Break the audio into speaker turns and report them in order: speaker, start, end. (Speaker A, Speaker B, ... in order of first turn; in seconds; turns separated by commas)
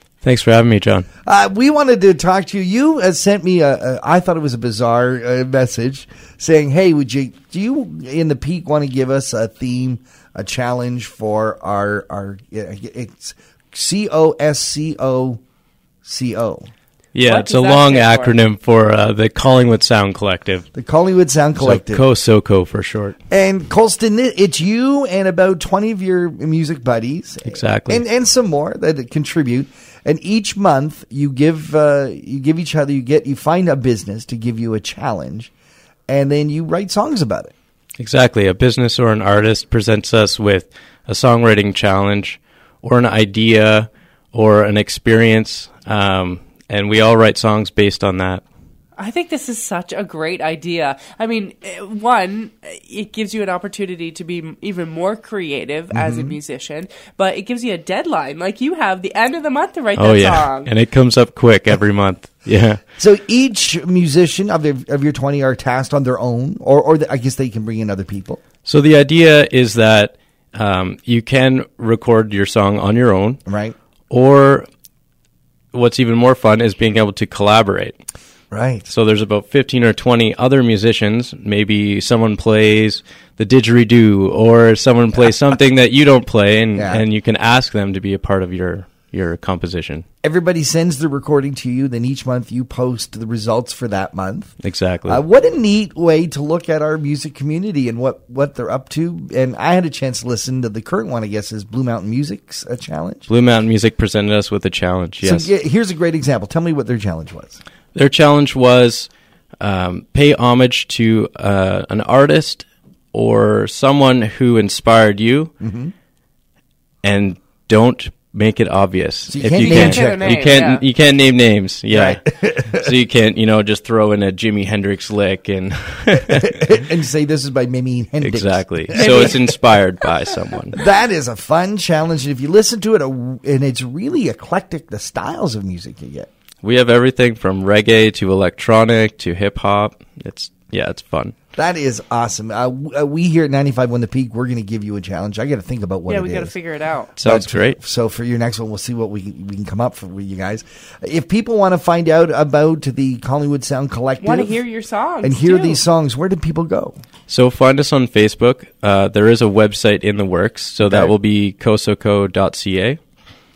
Speaker A: 0.2-1.1, Speaker B: 1.2-15.4, Speaker B: 16.0-16.7, Speaker A: 17.1-20.7, Speaker C: 17.2-18.4, Speaker B: 20.7-22.0, Speaker A: 21.6-23.1, Speaker B: 23.3-35.5, Speaker A: 27.5-28.0, Speaker B: 36.1-37.5, Speaker A: 38.0-48.4, Speaker C: 49.0-60.7, Speaker B: 55.9-56.3, Speaker A: 60.0-62.8, Speaker B: 63.0-68.4, Speaker A: 68.7-73.4, Speaker B: 73.5-73.7, Speaker A: 74.1-74.7, Speaker A: 75.7-78.0, Speaker B: 78.5-78.9, Speaker A: 78.9-90.0, Speaker B: 86.8-87.0, Speaker B: 90.2-94.5, Speaker A: 94.6-95.2, Speaker B: 95.1-103.3, Speaker A: 103.3-105.5, Speaker B: 105.2-107.6, Speaker A: 107.9-109.1, Speaker A: 109.6-115.5, Speaker B: 115.6-115.9, Speaker A: 117.0-126.7, Speaker B: 119.3-120.4, Speaker C: 119.6-120.8, Speaker B: 121.9-122.9, Speaker B: 126.4-129.4, Speaker A: 128.2-130.8, Speaker C: 128.9-129.4, Speaker B: 130.7-136.3, Speaker A: 136.6-141.3, Speaker B: 141.6-146.5, Speaker C: 146.1-147.1, Speaker A: 147.2-147.8, Speaker B: 147.2-154.6, Speaker C: 154.2-155.8, Speaker B: 155.2-157.0, Speaker A: 157.3-163.0, Speaker B: 160.8-161.1